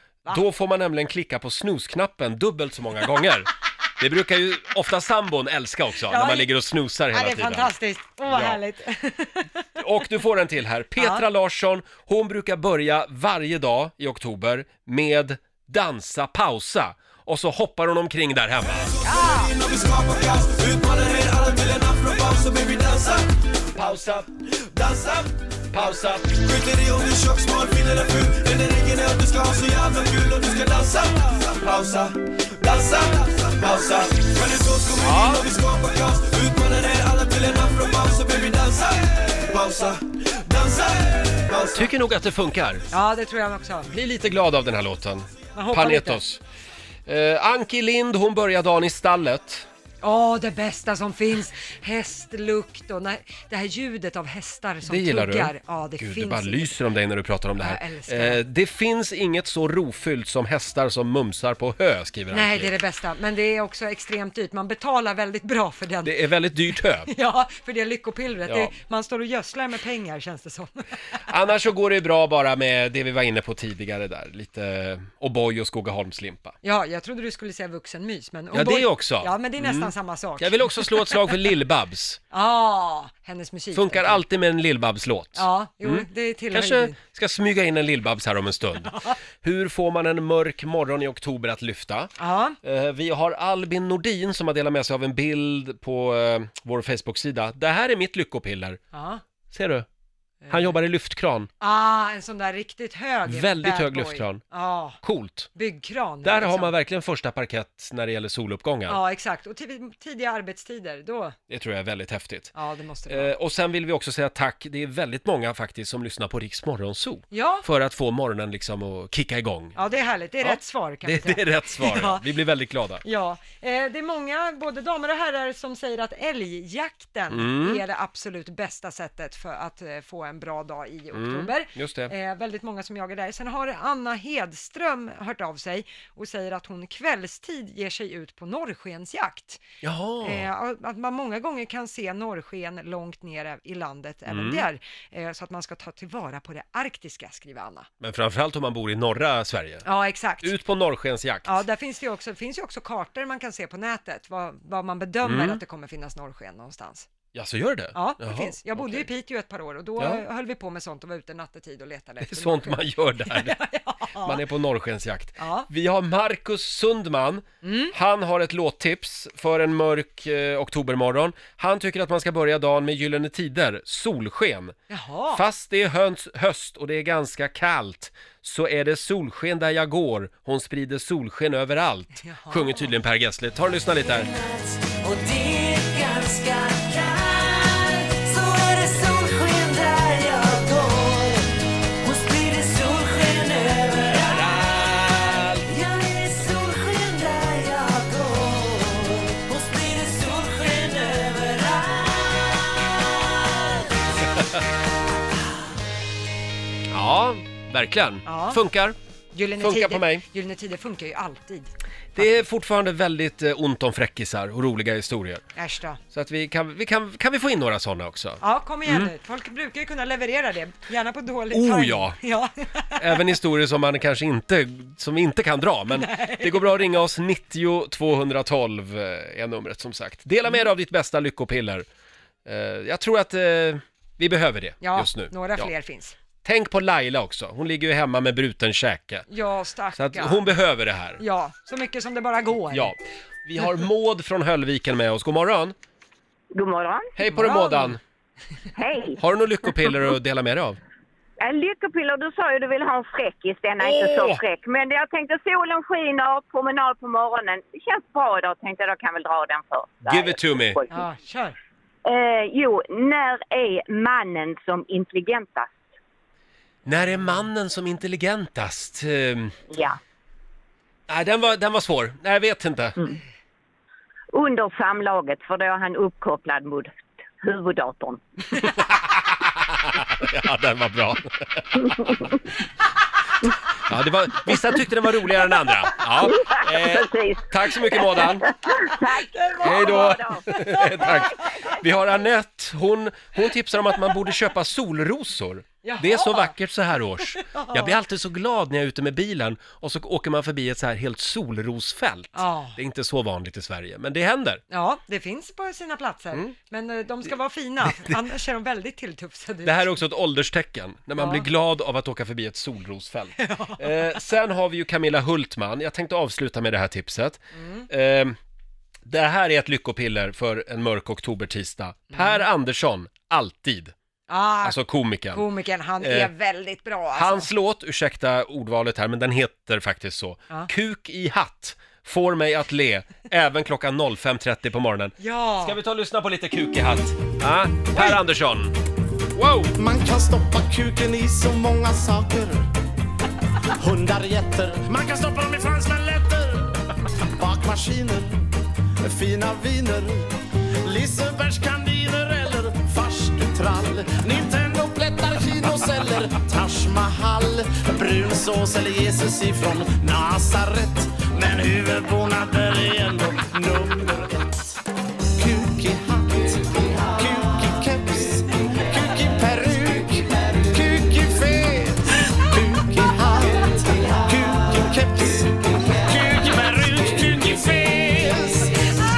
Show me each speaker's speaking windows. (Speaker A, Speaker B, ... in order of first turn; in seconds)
Speaker A: 0.3-7.7, 8.2-8.6, 9.8-18.9, 23.8-24.3, 25.7-26.3, 35.0-35.4, 41.7-42.9, 43.9-46.4, 47.1-49.7, 54.9-62.7, 66.0-67.1, 68.5-68.7, 71.3-76.6, 78.5-82.2, 83.7-92.1, 92.6-98.8, 99.5-99.9, 100.5-101.5, 103.3-104.4, 105.0-105.5, 106.2-109.0, 111.5-112.5, 113.1-119.8, 120.4-123.0, 127.3-127.8, 131.1-132.1, 139.8-140.5, 144.3-144.7, 148.0-149.9, 150.4-151.6, 155.2-155.6, 157.3-159.1, 162.2-163.6, 164.2-174.8, 175.3-184.3, 194.2-195.6, 206.9-209.0, 209.6-210.2, 212.2-215.4, 216.1-219.1, 221.5-222.2, 223.0-231.9, 232.4-235.7, 236.4-239.3, 239.9-241.2, 242.7-245.8, 247.2-248.0, 249.2-250.8, 253.8-254.4, 260.0-260.8, 266.9-269.6, 271.1-273.0, 278.6-282.1, 283.9-288.5, 289.6-304.6, 307.9-308.1, 309.6-318.4, 319.1-323.9, 324.6-325.4, 326.0-326.3, 327.1-338.8, 339.4-339.7
Speaker B: 6.1-6.5, 7.1-9.6, 11.0-11.2, 19.0-19.5, 42.9-43.9, 45.5-46.2, 50.0-56.8, 57.6-58.4, 62.3-70.8, 76.6-81.4, 82.3-84.2, 85.4-87.0, 92.2-92.6, 98.9-99.2, 100.4-100.8, 101.6-105.0, 105.5-106.7, 108.9-111.4, 112.5-113.3, 117.3-117.7, 119.8-122.3, 123.0-139.6, 140.2-147.9, 149.8-150.6, 151.4-157.1, 157.9-164.4, 165.4-165.7, 167.6-167.9, 174.9-175.4, 182.2-182.9, 208.2-208.6, 209.3-212.4, 215.6-216.0, 218.4-223.3, 225.9-226.8, 234.8-236.2, 239.3-240.5, 241.2-242.9, 247.3-248.0, 260.9-261.6, 266.9-267.4, 289.3-291.2, 295.8-296.5, 297.3-298.0, 302.3-302.8, 304.7-310.0, 311.2-311.5, 313.4-314.2, 317.5-317.9, 322.1-322.4, 324.3-327.5, 335.2-335.8, 337.9-338.2
Speaker C: 18.8-23.3, 24.6-41.9
Speaker D: 184.1-191.5, 192.0-194.8, 195.7-202.9
Speaker E: 246.5-247.1, 248.8-249.2, 251.4-260.9, 262.1-265.7, 269.7-270.0, 274.3-278.2, 286.4-290.5
Speaker F: 339.8-342.7, 343.8-346.7, 347.4-348.5, 349.0-350.3, 350.8-364.8, 365.4-378.9